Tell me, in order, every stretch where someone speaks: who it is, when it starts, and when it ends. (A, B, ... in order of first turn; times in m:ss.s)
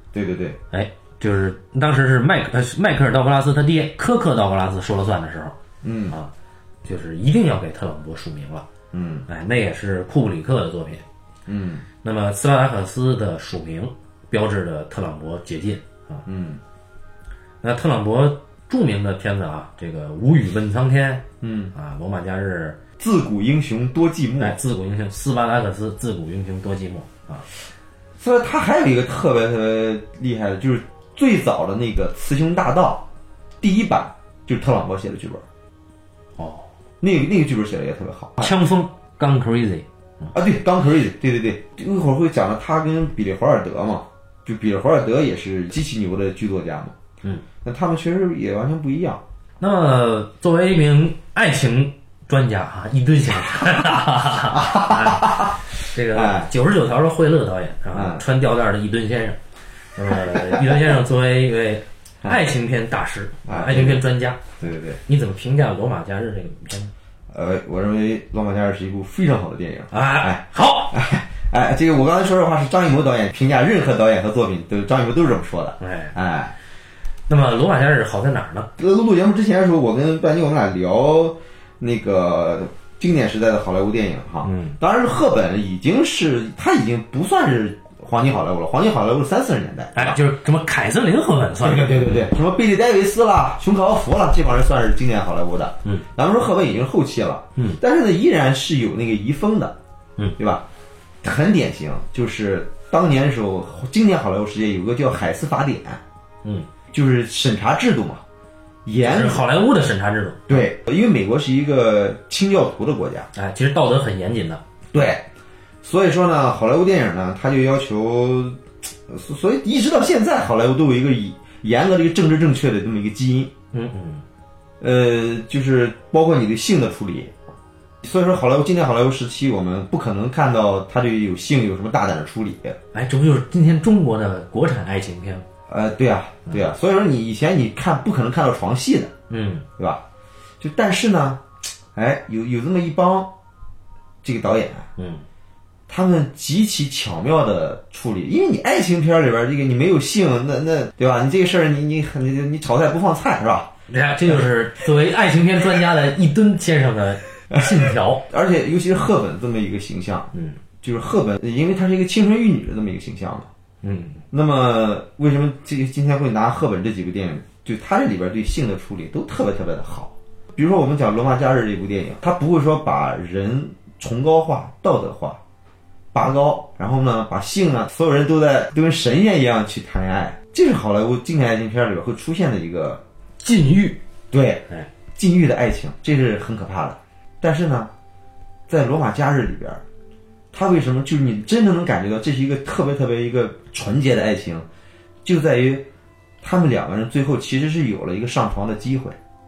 0:00.1-0:00.6 A
0:00.7-0:05.6 B
0:05.8-0:06.2 A
0:06.8-0:08.7 B
0:08.9-0:09.2 A
0:09.3-0:11.0 B
0:11.5-0:11.8 A
0:12.0-0:16.2 B
0:16.2-0:16.6 A
0:17.6-0:22.8 B
0:21.4-0:21.7 A
0:23.0-0:24.6 A
0:24.4-0:27.5 B
0:28.2-0:33.0 A
0:33.6-0:35.4 A
0:36.4-0:36.7 B
0:37.0-0:38.5 A
0:38.4-0:40.3 B
0:40.3-0:46.9 A
0:47.6-0:49.2 A
0:49.6-0:59.4 B
0:54.5-0:56.5 A
0:57.9-0:58.2 A
1:00.0-1:04.5 B
1:00.1-1:00.9 A
1:03.5-1:04.0 A
1:04.6-1:05.0 A
1:05.0-1:06.9 B
1:07.3-1:16.5 A
1:09.9-1:11.0 B
1:15.8-1:16.1 B
1:17.3-1:18.7 B
1:18.8-1:30.2 A
1:24.4-1:24.8 B
1:30.0-1:32.3 B
1:31.6-1:39.8 A
1:40.4-1:40.6 A
1:41.2-1:46.0 A
1:46.4-1:46.7 B
1:46.9-1:48.2 A
1:48.8-1:49.4 A
1:49.0-1:50.6 B
1:50.5-1:53.3 A
1:53.3-1:54.6 B
1:54.9-1:55.3 A
1:55.8-2:03.5 A
2:03.7-2:04.2 B
2:04.8-2:07.3 A
2:08.0-2:12.8 A
2:12.9-2:15.4 B
2:15.7-2:19.1 A
2:19.3-2:19.6 B
2:19.8-2:20.0 A
2:20.6-2:21.4 A
2:21.9-2:23.3 A
2:24.2-2:24.9 A
2:25.0-2:25.2 B
2:25.9-2:33.7 A
2:33.9-2:38.2 B
2:38.3-2:40.3 A
2:40.3-2:40.6 B
2:40.8-2:43.5 A
2:43.8-2:44.2 B
2:44.3-2:55.4 A
2:56.1-3:03.0 A
3:03.4-3:04.0 B
3:04.3-3:07.9 A
3:08.7-3:09.8 A
3:10.5-3:14.6 A
3:15.2-3:15.8 A
3:16.4-3:19.2 A